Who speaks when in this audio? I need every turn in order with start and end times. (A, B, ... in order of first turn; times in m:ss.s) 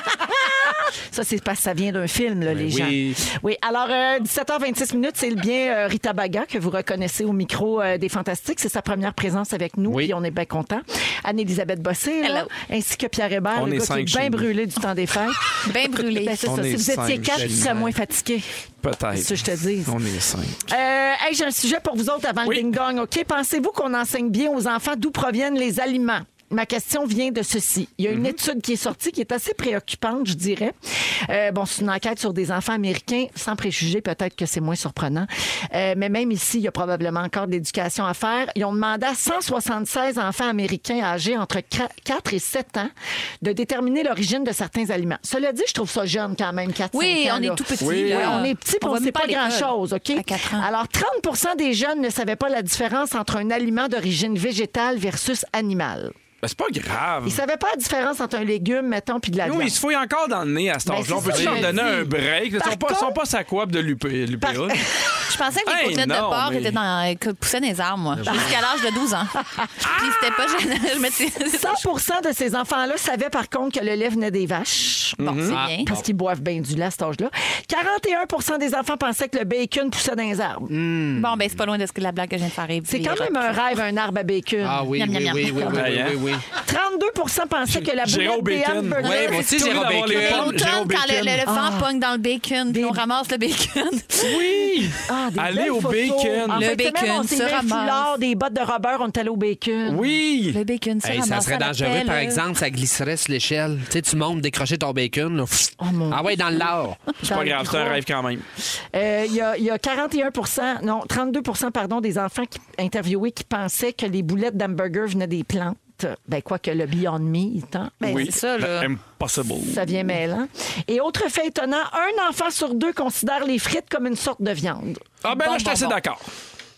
0:00.1-0:18.4 A
0:02.5-0:03.2 B
0:09.9-0:10.1 B
0:12.2-0:12.5 C
0:13.6-0:14.5 D
0:15.6-0:16.4 C
0:16.4-0:17.8 D
0:17.4-0:18.0 B
0:18.8-0:20.7 D
0:19.1-0:20.0 A
0:20.7-0:42.9 A
0:22.4-0:22.7 D
0:28.1-0:28.4 D
0:43.4-0:56.1 A
0:46.9-0:50.7 C
0:47.8-0:48.5 D
0:56.4-0:57.4 D
0:57.2-0:59.8 A
0:59.4-1:04.8 D
1:00.9-1:03.2 A
1:01.3-1:01.7 B
1:04.4-1:05.2 A
1:05.3-1:11.8 C
1:05.6-1:06.8 D
1:08.2-1:08.5 B
1:08.3-1:08.6 A
1:09.6-1:10.1 A
1:11.5-1:20.7 A
1:15.2-1:15.6 D
1:15.4-1:15.9 C
1:15.5-1:16.1 B
1:20.7-1:21.5 B
1:21.1-1:23.6 C
1:22.9-1:26.0 A
1:24.6-1:26.5 B
1:25.0-1:25.8 C
1:25.8-1:26.2 D
1:26.6-1:29.5 A
1:27.7-1:31.4 D
1:29.0-1:30.6 B
1:29.0-1:29.5 C
1:30.1-1:34.4 C
1:31.4-1:31.9 A
1:32.7-1:33.0 A
1:34.2-1:36.7 D
1:35.1-1:40.1 A
1:36.5-1:38.1 C
1:39.8-1:40.6 D
1:40.5-1:42.4 C
1:41.0-1:47.0 B
1:45.8-1:46.7 A
1:47.2-1:48.0 A
1:47.2-1:48.4 D
1:48.9-1:58.3 A
1:58.0-1:58.9 C
1:58.0-2:00.2 D
1:59.6-2:05.0 A
2:05.2-2:06.2 D
2:05.3-2:06.0 C